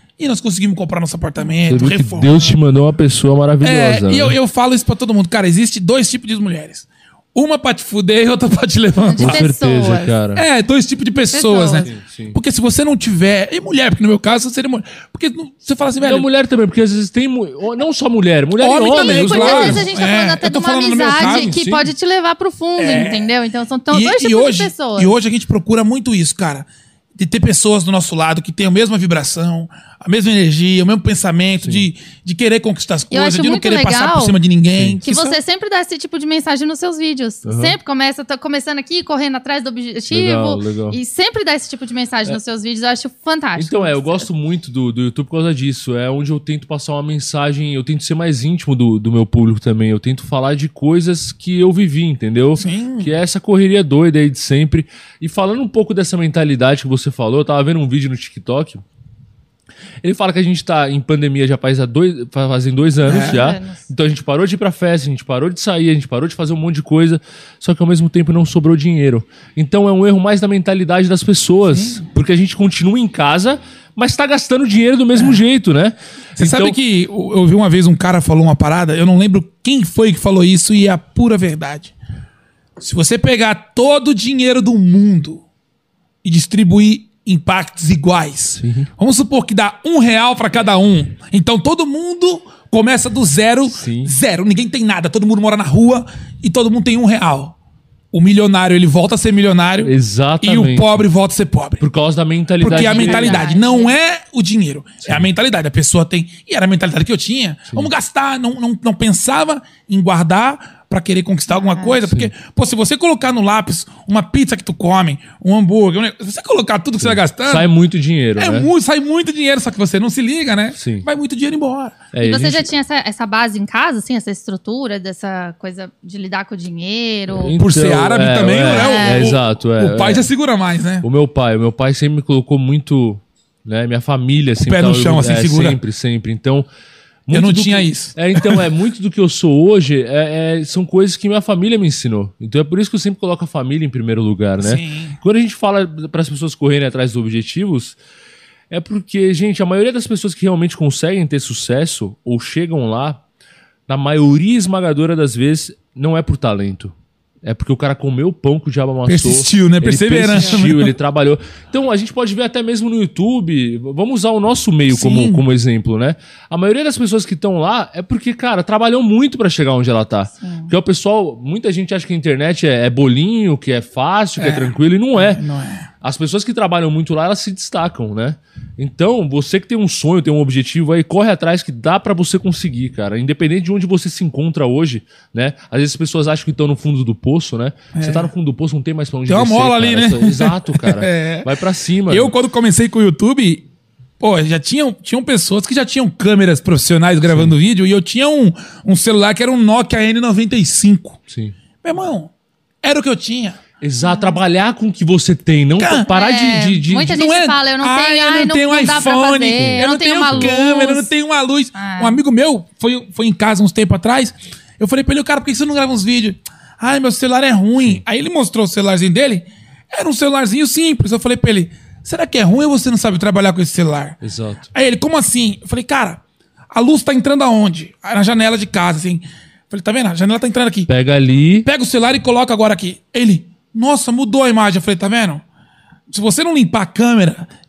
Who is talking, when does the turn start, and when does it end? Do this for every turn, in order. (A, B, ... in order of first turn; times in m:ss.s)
0:00.2-0:02.6 A
0:01.7-0:04.4 B
0:03.6-0:09.5 A
0:09.1-0:10.2 C
0:09.2-0:10.4 B
0:10.4-0:16.3 A
0:11.3-0:11.9 C
0:11.8-0:12.4 B
0:16.0-0:19.9 B
0:18.6-0:21.6 A
0:18.8-0:25.1 C
0:21.1-0:21.9 B
0:22.8-0:23.3 A
0:23.9-0:35.4 A
0:31.6-0:31.9 B
0:33.1-0:34.4 C
0:34.8-0:35.0 B
0:35.0-0:44.3 C
0:37.4-0:37.8 B
0:40.1-0:41.0 B
0:43.6-0:58.8 B
0:52.6-0:53.2 A
1:00.0-1:16.8 B
1:03.0-1:03.5 A
1:03.1-1:03.9 C
1:11.7-1:12.0 A
1:15.2-1:15.4 A
1:16.4-1:21.9 A
1:22.8-1:25.4 A
1:26.2-1:37.6 A
1:28.6-1:28.9 B
1:33.7-1:34.1 B
1:38.1-1:41.8 A
1:39.8-1:41.1 B
1:41.8-1:43.5 B
1:42.6-1:57.7 A
1:42.7-1:43.9 C
1:51.5-1:52.0 C
1:52.1-1:52.3 B
1:57.0-1:58.7 B
1:58.4-2:02.1 A
2:00.8-2:01.1 B
2:02.1-2:02.7 B
2:02.2-2:07.5 C
2:07.3-2:10.3 B
2:07.6-2:11.1 A
2:08.7-2:09.3 C
2:11.0-2:16.7 B
2:14.6-2:15.8 A
2:17.3-2:28.0 B
2:17.3-2:18.7 A
2:24.6-2:25.2 A
2:28.7-2:33.2 B
2:33.9-2:36.9 B
2:37.4-2:55.4 B
2:39.1-2:41.0 A
2:44.9-2:45.4 A
2:50.4-2:50.7 C
2:54.4-2:55.9 A
2:56.0-3:12.3 B
3:08.0-3:08.3 A
3:09.3-3:11.6 A
3:12.1-3:13.7 A
3:14.2-3:21.2 A
3:21.3-3:21.5 B
3:21.8-3:22.3 A
3:22.8-3:23.6 A
3:23.8-3:27.2 B
3:24.0-3:24.4 C
3:25.8-3:26.1 A
3:26.1-3:31.1 C
3:27.0-3:44.2 A
3:29.6-3:30.5 B
3:31.8-3:32.2 C
3:44.2-3:44.7 B
3:44.7-3:46.2 A
3:46.7-3:50.9 A
3:50.9-3:51.7 B
3:51.6-3:55.4 A
3:56.1-3:57.5 A